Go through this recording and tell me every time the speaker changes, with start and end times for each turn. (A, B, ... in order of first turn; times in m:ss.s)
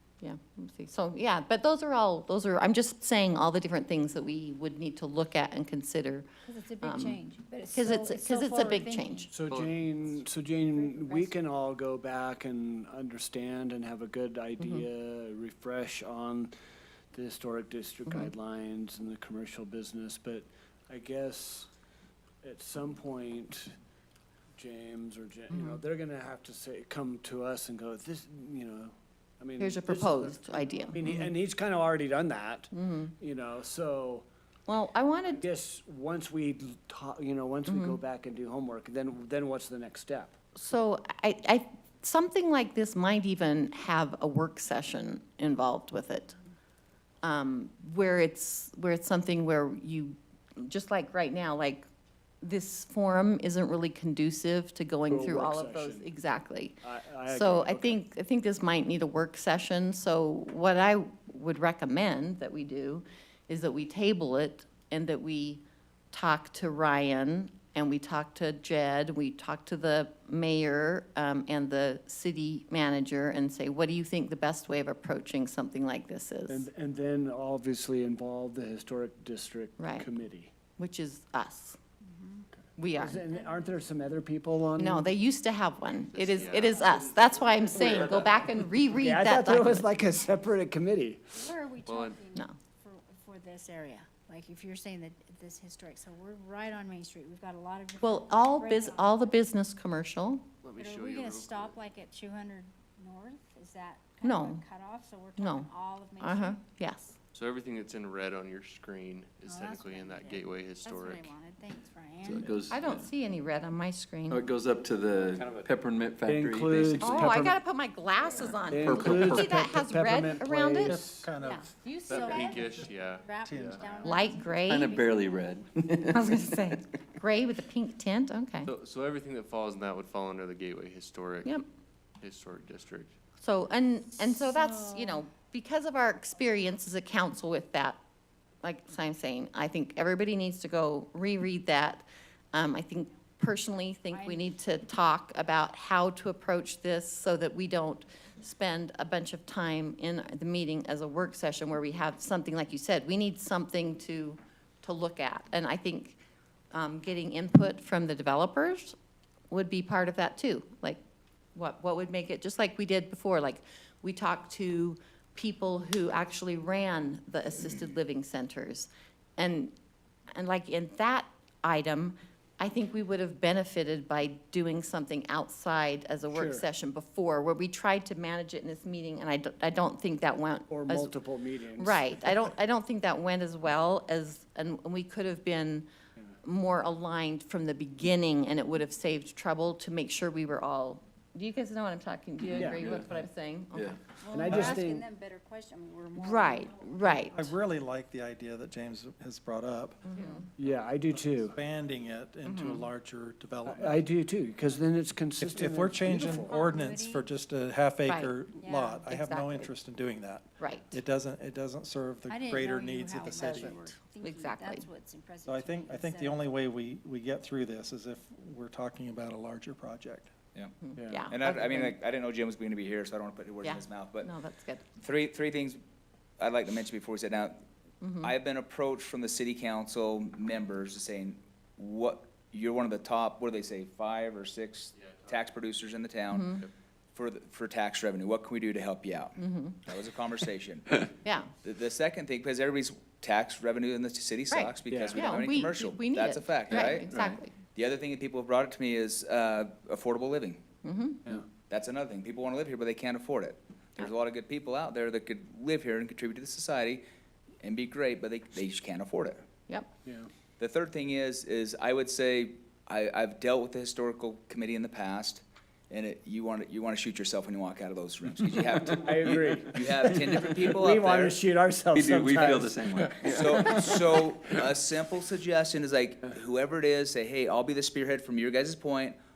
0:00.2-0:06.3 A
0:06.4-0:09.3 B
0:06.8-0:07.2 A
0:07.7-0:09.3 A
0:09.3-0:16.5 C
0:09.4-0:09.9 D
0:10.7-0:11.4 B
0:14.6-0:14.8 A
0:17.1-0:21.7 C
0:22.4-0:23.7 C
0:24.5-0:34.2 C
0:25.5-0:25.8 A
0:29.6-0:31.3 A
0:32.7-0:33.1 A
0:34.7-0:35.4 A
0:35.3-0:40.4 C
0:37.6-0:38.0 A
0:40.6-0:46.4 A
0:47.2-0:51.9 A
0:52.4-1:16.6 A
0:55.1-0:56.1 C
0:56.8-0:58.0 C
1:16.5-1:20.5 C
1:19.8-1:20.0 A
1:20.8-1:21.8 A
1:22.0-1:22.5 B
1:22.8-1:23.2 A
1:23.0-1:25.1 C
1:23.0-1:24.0 B
1:24.8-1:29.9 A
1:26.1-1:27.0 D
1:28.9-1:31.4 C
1:31.4-1:39.6 B
1:31.8-1:32.2 D
1:38.0-1:40.4 A
1:40.6-1:41.7 D
1:40.8-1:46.6 B
1:44.2-1:44.6 A
1:45.4-1:45.7 A
1:46.2-1:47.1 A
1:47.3-1:51.3 D
1:49.4-1:52.5 B
1:52.2-1:52.7 D
1:52.5-1:53.0 E
1:52.7-1:54.5 A
1:54.3-1:57.3 E
1:56.2-1:57.6 C
1:57.0-2:01.6 A
1:58.2-1:58.9 B
1:58.6-2:01.3 C
1:58.9-1:59.4 E
2:00.8-2:02.9 F
2:01.6-2:05.9 B
2:02.1-2:04.0 D
2:03.4-2:04.2 F
2:04.0-2:04.9 A
2:04.7-2:06.8 E
2:06.1-2:08.7 A
2:08.6-2:11.6 D
2:12.2-2:13.1 D
2:13.4-2:18.0 A
2:14.5-2:15.2 B
2:18.6-2:36.2 A
2:24.1-2:24.5 B
2:36.7-2:39.0 A
2:39.5-2:41.0 A
2:41.5-2:49.7 A
2:50.3-3:01.1 A
2:56.3-2:56.6 C
3:00.7-3:02.1 C
3:01.8-3:05.8 A
3:06.4-3:14.9 A
3:12.6-3:12.8 C
3:12.6-3:13.1 E
3:14.2-3:17.5 B
3:14.3-3:15.0 C
3:14.4-3:14.8 F
3:16.2-3:17.5 A
3:17.1-3:20.0 F
3:20.0-3:20.4 A
3:20.1-3:20.5 B
3:20.6-3:21.5 C
3:21.1-3:24.0 F
3:22.4-3:22.9 A
3:23.6-3:26.6 C
3:25.4-3:33.8 F
3:26.4-3:27.3 B
3:28.0-3:28.4 A
3:28.6-3:29.0 B
3:29.0-3:29.7 A
3:30.6-3:30.9 A
3:32.3-3:36.5 B
3:33.3-3:34.8 A
3:35.4-3:40.3 F
3:40.8-3:42.0 A
3:41.0-3:41.3 C
3:41.3-3:44.3 G
3:43.6-3:44.8 A
3:45.0-3:45.8 G
3:46.4-3:47.6 G
3:48.0-3:48.3 A
3:48.2-3:56.5 G
3:54.9-3:55.5 D
3:56.3-3:56.6 A
3:57.1-4:01.0 G
3:59.4-3:59.8 A
4:01.2-4:01.5 A
4:01.6-4:07.2 G
4:04.5-4:07.5 A
4:04.9-4:05.2 C
4:07.7-4:10.6 G
4:10.8-4:11.2 A
4:11.6-4:17.0 G
4:17.6-4:19.4 G
4:20.0-4:20.3 C
4:20.6-4:31.4 G
4:28.8-4:34.2 C
4:32.0-4:33.3 E
4:33.2-4:39.2 G